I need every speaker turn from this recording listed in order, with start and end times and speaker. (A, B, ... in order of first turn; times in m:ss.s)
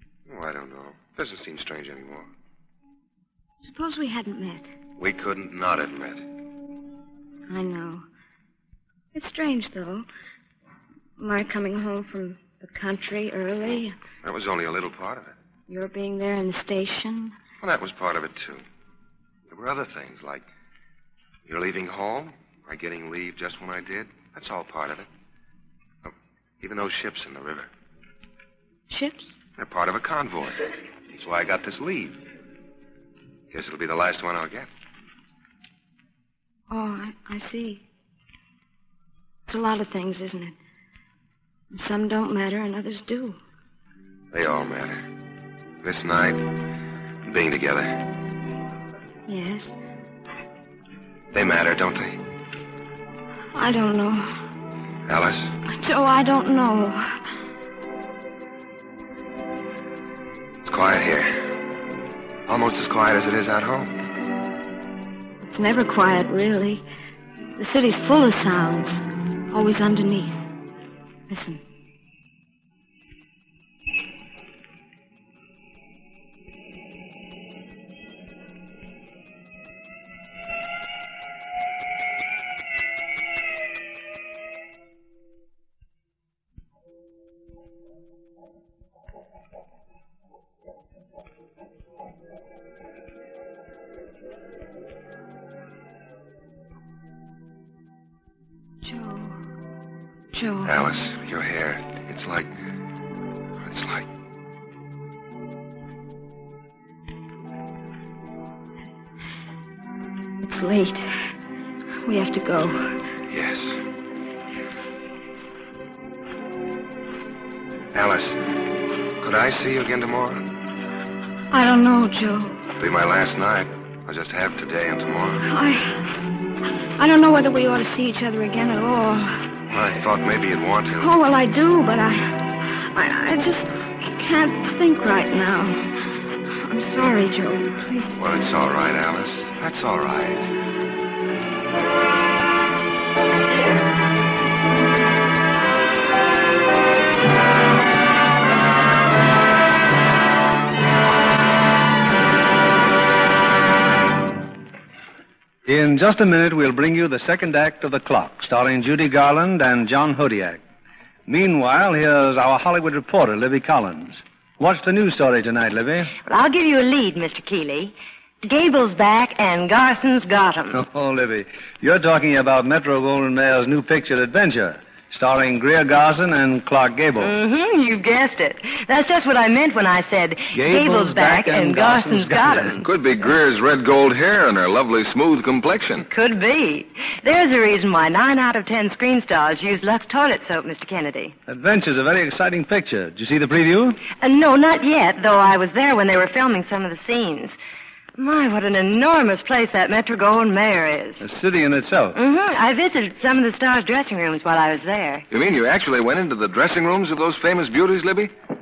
0:00.3-0:02.3 A
0:03.6-0:04.7 B
0:05.0-0:06.2 A
0:07.5-0:08.0 B
0:09.1-0:10.0 B
0:11.2-0:14.0 B
0:14.2-0:15.3 A
0:15.7-0:17.3 B
0:17.6-0:18.6 A
0:19.5-0:20.4 A
0:21.4-0:25.1 A
0:26.0-0:27.7 A
0:28.9-0:29.3 B
0:29.6-0:32.2 A
0:33.5-0:34.7 A
0:36.7-0:37.8 B
0:39.5-0:40.6 B
0:41.7-0:43.4 B
0:44.3-0:45.0 A
0:45.8-0:46.6 A
0:47.2-0:48.0 A
0:49.3-0:49.7 B
0:51.3-0:52.2 A
0:53.5-0:54.4 B
0:55.1-0:55.5 A
0:55.6-0:57.0 B
1:00.6-1:01.6 A
1:02.5-1:04.0 A
1:05.4-1:06.8 B
1:07.6-1:10.4 B
1:11.3-1:11.6 B
1:38.8-1:39.4 B
1:40.3-1:40.9 B
1:40.6-1:42.5 A
1:43.6-1:44.1 A
1:50.4-1:51.0 B
1:52.0-1:53.0 B
1:53.3-1:53.8 A
1:57.9-1:58.4 A
1:59.2-2:00.5 A
2:01.5-2:02.6 B
2:02.8-2:05.5 A
2:05.4-2:06.2 B
2:07.0-2:09.4 B
2:09.7-2:11.1 A
2:11.0-2:16.0 B
2:16.6-2:18.2 B
2:18.2-2:20.5 A
2:35.6-2:40.6 C
2:41.3-2:46.1 C
2:46.2-2:50.8 D
2:50.7-2:57.3 C
2:57.2-3:02.8 D
3:00.5-3:02.8 C
3:02.8-3:06.1 E
3:06.1-3:11.4 D
3:11.5-3:14.0 C
3:14.2-3:17.6 D
3:18.2-3:21.2 D
3:21.2-3:22.2 C
3:22.1-3:25.2 D
3:25.3-3:28.3 E